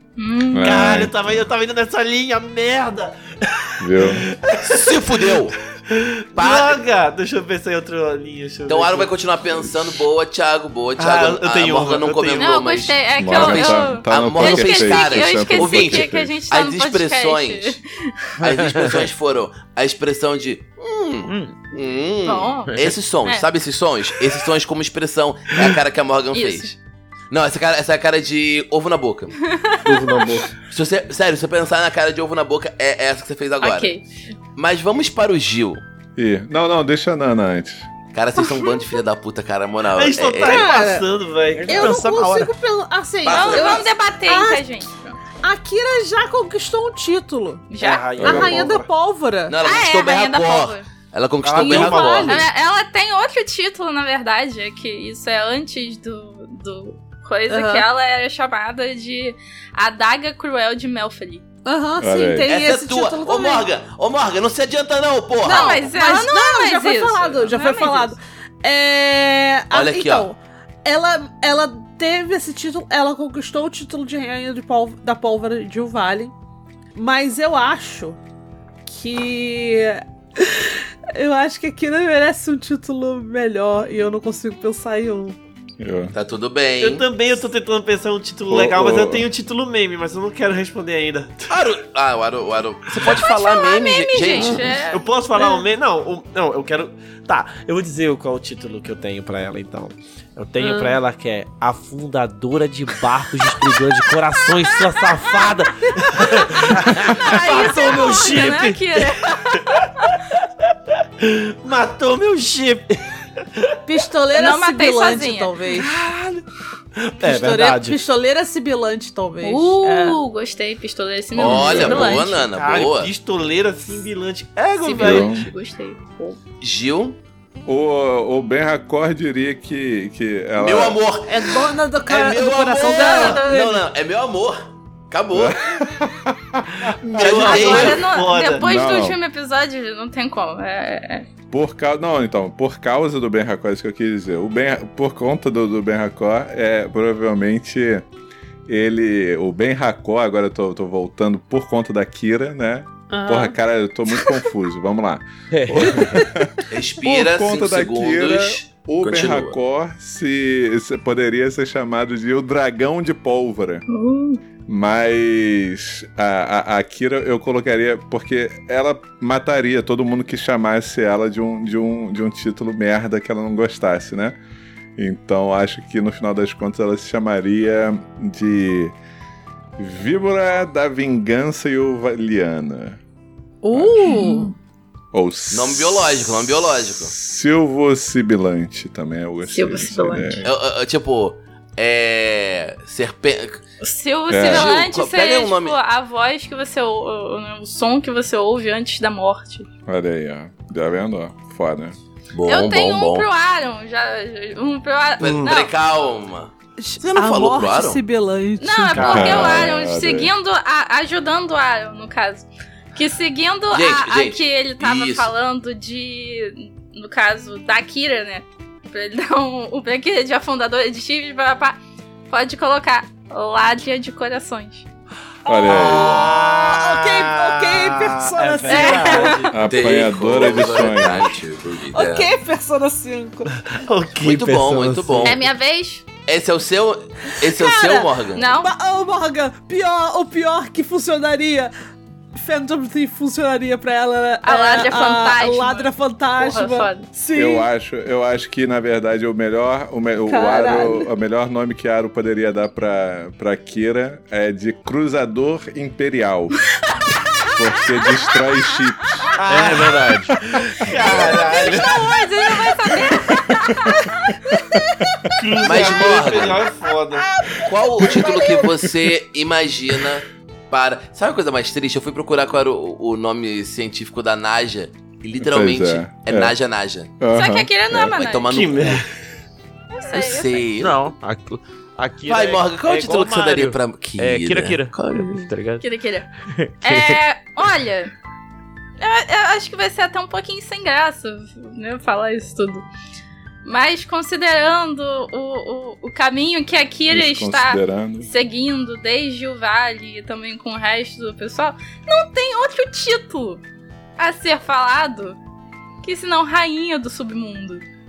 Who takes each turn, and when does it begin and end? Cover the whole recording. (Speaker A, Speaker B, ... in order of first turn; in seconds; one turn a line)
Speaker A: 0.2-0.8
Speaker B: 0.5-1.4
Speaker C: 0.6-9.1
Speaker B: 3.8-4.3
Speaker D: 4.6-5.6
Speaker D: 6.4-6.8
Speaker D: 8.7-17.8
Speaker C: 11.0-12.7
Speaker A: 12.4-18.3
Speaker B: 13.2-16.3
Speaker D: 18.4-26.8
Speaker E: 18.4-19.1
Speaker E: 21.3-21.6
Speaker A: 22.2-22.7
Speaker A: 26.3-26.7
Speaker D: 27.3-29.4
Speaker A: 29.5-30.3
Speaker C: 29.8-30.5
Speaker D: 30.7-33.9
Speaker A: 33.6-34.2
Speaker D: 34.5-35.8
Speaker B: 36.2-37.9
Speaker D: 38.1-40.8
Speaker C: 39.9-42.0
Speaker F: 40.4-41.1
Speaker E: 41.5-42.5
Speaker F: 41.7-44.7
Speaker D: 43.2-43.9
Speaker A: 43.3-45.2
Speaker F: 45.4-49.6
Speaker A: 47.7-48.2
Speaker C: 47.8-48.9
Speaker B: 48.2-48.7
Speaker D: 49.5-52.4
Speaker A: 49.6-50.9
Speaker C: 51.4-52.5
Speaker F: 51.6-52.5
Speaker A: 52.2-61.4
Speaker F: 57.5-57.9
Speaker F: 61.6-63.7
Speaker B: 62.0-62.5
Speaker D: 62.5-65.8
Speaker F: 65.4-76.3
Speaker A: 65.5-68.2
Speaker D: 69.7-70.3
Speaker F: 77.0-78.2
Speaker F: 78.9-85.4
Speaker B: 85.8-86.1
Speaker D: 86.1-87.1
Speaker C: 86.8-91.5
Speaker B: 88.5-89.3
Speaker D: 91.5-94.8
Speaker A: 93.0-95.0
Speaker C: 94.8-109.6
Speaker F: 100.6-101.0
Speaker A: 105.1-105.5
Speaker A: 106.2-110.2
Speaker C: 111.2-113.7
Speaker F: 113.8-115.9
Speaker A: 114.3-115.6
Speaker C: 115.7-116.4
Speaker C: 117.0-118.0
Speaker F: 117.2-120.2
Speaker A: 119.4-122.2
Speaker D: 121.3-123.1
Speaker B: 121.4-122.1
Speaker F: 121.8-122.4
Speaker C: 121.8-125.4
Speaker A: 124.8-126.4
Speaker B: 125.0-125.5
Speaker D: 126.6-127.2
Speaker B: 127.7-131.0
Speaker D: 130.6-135.6
Speaker F: 131.3-133.8
Speaker A: 132.8-133.8
Speaker B: 135.3-137.8
Speaker C: 137.1-138.7
Speaker D: 137.2-138.1
Speaker A: 137.2-141.3
Speaker B: 138.6-139.2
Speaker B: 141.5-148.1
Speaker B: 148.7-163.8
Speaker F: 153.1-153.6
Speaker E: 155.5-156.2
Speaker F: 156.0-156.3
Speaker D: 156.7-159.6
Speaker A: 163.9-164.4
Speaker B: 164.7-174.4
Speaker B: 175.0-178.9
Speaker B: 179.8-183.0
Speaker F: 183.6-184.5
Speaker B: 183.7-184.2
Speaker A: 184.1-184.5
Speaker B: 185.1-190.5
Speaker D: 185.5-187.1
Speaker A: 189.5-190.4
Speaker D: 190.4-193.6
Speaker A: 193.8-199.7
Speaker B: 194.3-194.7
Speaker D: 194.4-195.8
Speaker B: 199.9-202.0
Speaker D: 202.3-203.3
Speaker A: 202.5-205.7
Speaker D: 205.2-208.0
Speaker F: 206.8-209.4
Speaker A: 208.6-221.8
Speaker C: 209.0-209.5
Speaker B: 209.0-210.3
Speaker D: 213.7-215.3
Speaker A: 222.3-224.9
Speaker B: 225.5-226.3
Speaker F: 225.5-229.4
Speaker C: 225.7-229.7
Speaker A: 228.7-229.5
Speaker B: 229.5-231.3
Speaker D: 229.7-232.3
Speaker F: 231.9-233.6
Speaker C: 233.6-235.4
Speaker D: 234.2-235.4
Speaker A: 235.2-236.0
Speaker D: 236.3-238.5
Speaker F: 237.3-241.7
Speaker A: 238.4-238.7
Speaker F: 242.3-247.7
Speaker A: 244.4-247.1
Speaker B: 247.3-256.6
Speaker F: 250.3-251.1
Speaker B: 257.5-259.3
Speaker C: 259.4-262.1
Speaker E: 259.5-260.4
Speaker B: 261.0-261.3
Speaker A: 261.3-264.1
Speaker F: 264.7-265.1
Speaker B: 264.7-265.3
Speaker C: 265.4-267.3
Speaker D: 265.6-266.7
Speaker F: 267.2-268.7
Speaker D: 267.6-277.1
Speaker B: 268.2-268.9
Speaker B: 275.4-276.6
Speaker B: 277.2-278.2
Speaker A: 277.3-278.7
Speaker D: 278.1-279.0
Speaker C: 278.5-279.1
Speaker A: 279.9-280.7
Speaker D: 280.1-281.0
Speaker E: 280.8-285.9
Speaker D: 282.3-285.5
Speaker A: 285.8-286.3
Speaker E: 286.5-287.2
Speaker A: 286.8-288.1
Speaker A: 289.0-292.9
Speaker A: 293.6-303.6
Speaker B: 297.1-298.3
Speaker A: 304.2-305.4
Speaker A: 306.0-307.9